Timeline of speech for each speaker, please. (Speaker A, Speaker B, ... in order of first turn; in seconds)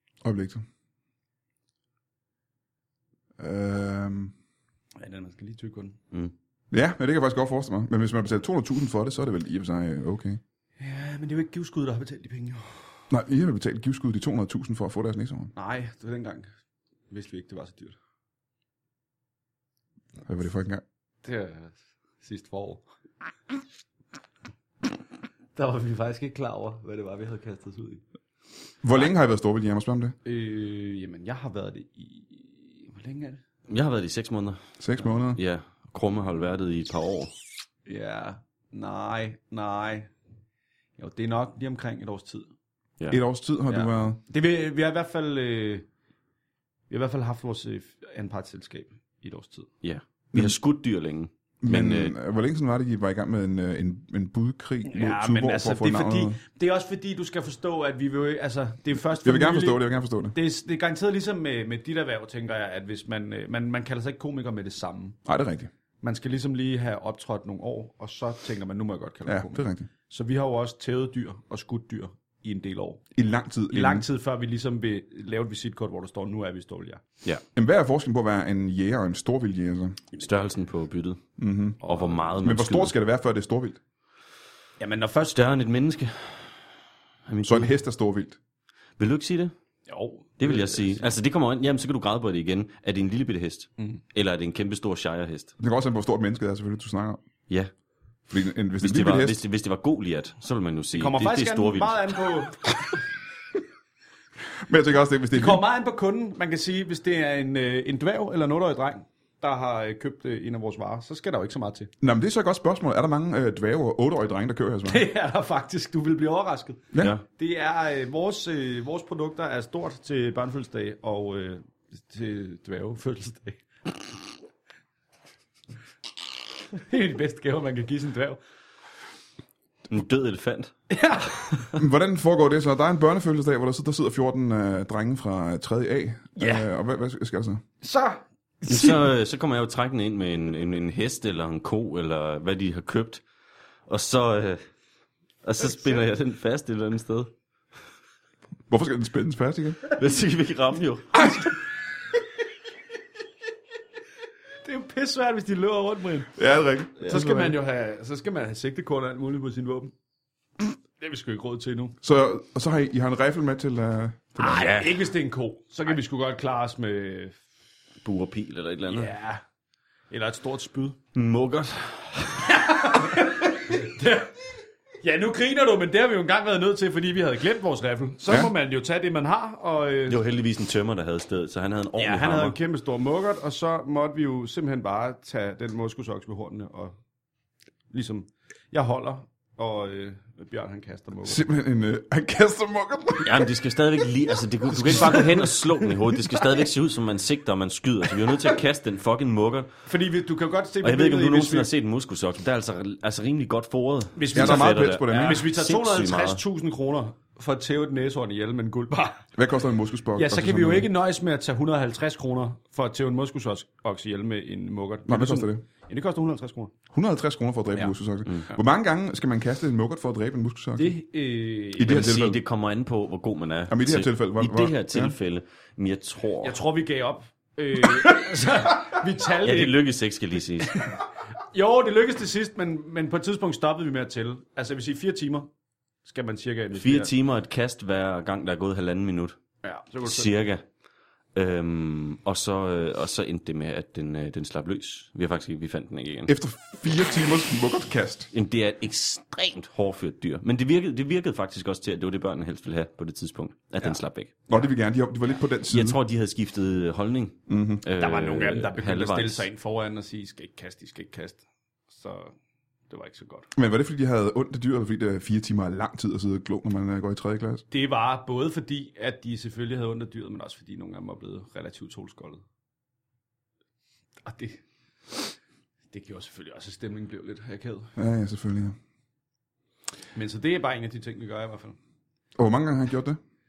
Speaker A: 0.2-0.6, 3.4-4.3, 6.7-10.4, 13.1-15.5, 20.3-20.8, 28.8-30.1, 34.8-35.4, 43.1-44.2, 51.6-56.4, 59.2-60.4, 65.2-65.7, 69.2-69.9, 73.1-74.0, 77.5-80.0, 81.4-81.8, 82.4-83.8, 87.4-88.4, 95.6-97.2, 98.3-99.4, 104.6-105.6, 112.0-115.0, 116.9-117.2, 131.7-137.6, 148.7-149.9, 156.3-157.6, 162.0-164.6, 191.2-193.5, 194.8-195.3, 204.3-205.5, 209.3-210.9, 215.1-215.6, 216.9-220.9, 221.7-222.4, 223.7-225.1, 246.3-248.3, 254.5-256.0, 257.5-257.8, 263.5-267.6, 277.9-278.8, 282.4-283.2
Speaker B: 5.0-6.0, 10.8-12.8, 15.5-16.5, 17.1-17.9, 21.2-22.8, 25.6-28.0, 30.2-33.4, 37.9-40.1, 41.0-42.5, 43.7-45.9, 46.9-49.7, 54.8-59.8, 60.3-65.2, 66.0-73.0, 73.7-77.0, 81.8-82.3, 84.8-85.4, 89.9-91.1, 100.9-103.0, 105.3-111.9, 114.9-123.6, 126.7-128.4, 130.9-131.6, 136.3-136.7, 137.8-139.1, 145.6-146.0, 154.6-156.3, 157.0-159.9, 160.6-161.9, 164.4-167.3, 168.9-169.4, 170.1-171.0, 172.5-180.2, 182.0-186.9, 187.9-191.4, 195.0-195.4, 199.9-201.7, 204.2-209.2, 210.2-216.7, 220.8-222.1, 226.4-229.8, 230.6-235.5, 236.0-237.1, 239.6-240.3, 258.0-262.3, 262.9-263.5, 267.7-272.4, 274.2-275.4, 275.9-277.9, 280.1-281.8
Speaker C: 33.7-34.6, 35.3-37.3, 49.8-52.1, 80.1-81.2, 81.8-82.9, 85.3-86.7, 87.3-87.7, 89.0-89.5, 90.4-95.5, 98.8-102.1, 129.9-130.7, 138.7-143.2, 143.9-144.6, 145.4-147.3, 149.9-151.4, 164.4-165.0, 168.0-169.1, 171.1-172.8, 180.1-182.6, 193.2-199.7, 200.8-206.4, 221.8-226.6, 229.4-230.8, 236.7-239.4, 240.0-240.6, 241.3-246.3, 248.3-254.3, 255.7-259.5